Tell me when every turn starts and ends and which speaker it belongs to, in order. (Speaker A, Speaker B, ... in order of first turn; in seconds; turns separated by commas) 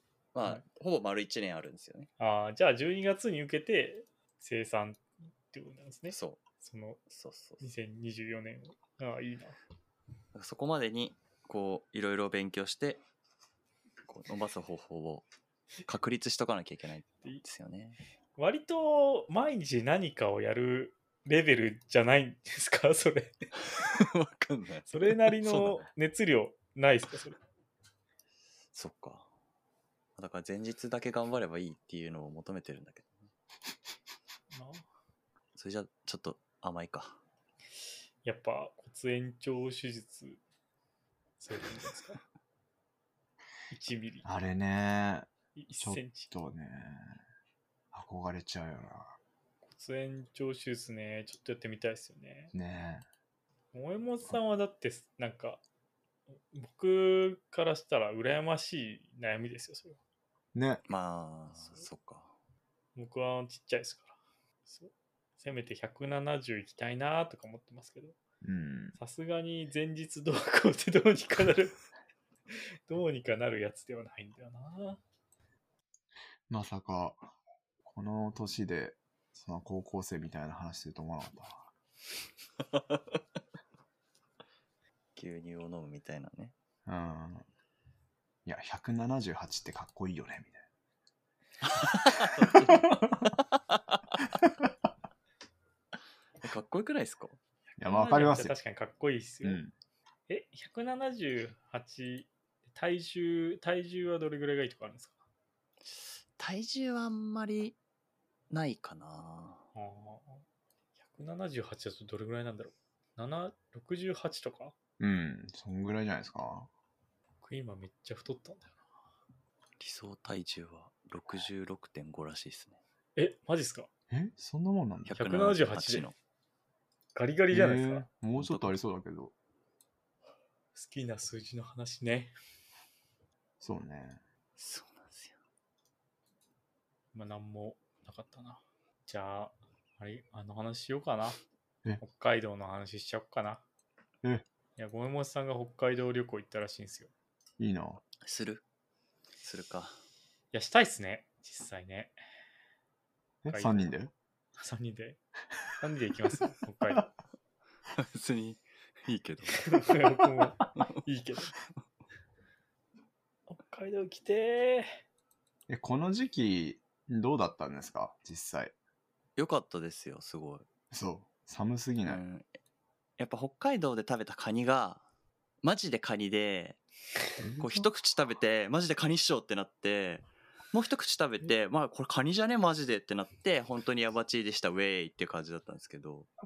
Speaker A: 0.3-2.1, Speaker B: 2.2-7.0, Speaker A: 6.1-6.4, Speaker A: 7.1-7.6, Speaker B: 7.6-9.6, Speaker A: 10.3-13.0, Speaker A: 14.1-15.2, Speaker A: 15.8-18.0, Speaker B: 18.4-23.3, Speaker A: 23.6-25.8, Speaker B: 24.9-27.4, Speaker A: 28.7-29.3, Speaker A: 30.1-33.1, Speaker B: 34.5-34.8, Speaker A: 35.5-37.2, Speaker B: 38.2-40.4, Speaker B: 41.4-42.2, Speaker B: 43.7-44.3, Speaker C: 44.2-47.2, Speaker B: 45.5-46.3, Speaker C: 47.9-49.1, Speaker B: 49.6-52.5, Speaker C: 52.5-53.0, Speaker B: 53.7-55.6, Speaker B: 56.5-60.0, Speaker C: 60.5-60.8, Speaker A: 60.9-62.3, Speaker B: 62.9-64.2, Speaker B: 64.7-68.2, Speaker C: 68.4-69.0, Speaker B: 69.0-71.8, Speaker B: 72.5-75.0, Speaker C: 76.5-77.3, Speaker C: 77.8-81.7, Speaker A: 85.2-86.5, Speaker C: 86.8-87.4, Speaker C: 88.5-90.6, Speaker A: 91.6-94.0, Speaker C: 92.4-92.7, Speaker C: 94.4-94.7, Speaker A: 96.4-97.4, Speaker B: 97.7-99.6, Speaker C: 97.8-98.5, Speaker C: 99.4-99.7, Speaker B: 100.3-105.2, Speaker A: 105.8-107.8, Speaker A: 108.5-109.6, Speaker B: 109.7-110.4, Speaker B: 111.0-114.7, Speaker C: 115.0-116.7, Speaker B: 117.4-118.8, Speaker A: 119.8-122.8, Speaker B: 123.2-123.9, Speaker C: 124.1-125.2, Speaker A: 125.0-126.1, Speaker B: 125.2-126.1, Speaker B: 127.1-128.1, Speaker C: 127.5-129.3, Speaker A: 128.3-128.8, Speaker B: 130.7-132.3, Speaker C: 133.6-134.2, Speaker A: 134.6-135.3, Speaker B: 137.1-141.4, Speaker B: 142.0-143.6, Speaker B: 144.8-147.1, Speaker C: 147.6-148.0, Speaker A: 148.2-148.6, Speaker A: 149.4-150.0, Speaker B: 150.5-152.1, Speaker C: 153.4-154.1, Speaker B: 153.5-153.9, Speaker B: 154.6-155.2, Speaker B: 155.8-157.1, Speaker A: 158.0-160.2, Speaker B: 159.6-161.5, Speaker B: 163.5-165.0, Speaker C: 165.7-168.7, Speaker A: 169.4-170.7, Speaker C: 170.9-172.2, Speaker A: 172.1-172.5, Speaker A: 173.2-175.0, Speaker A: 175.6-176.8, Speaker C: 177.4-177.8, Speaker A: 177.6-186.3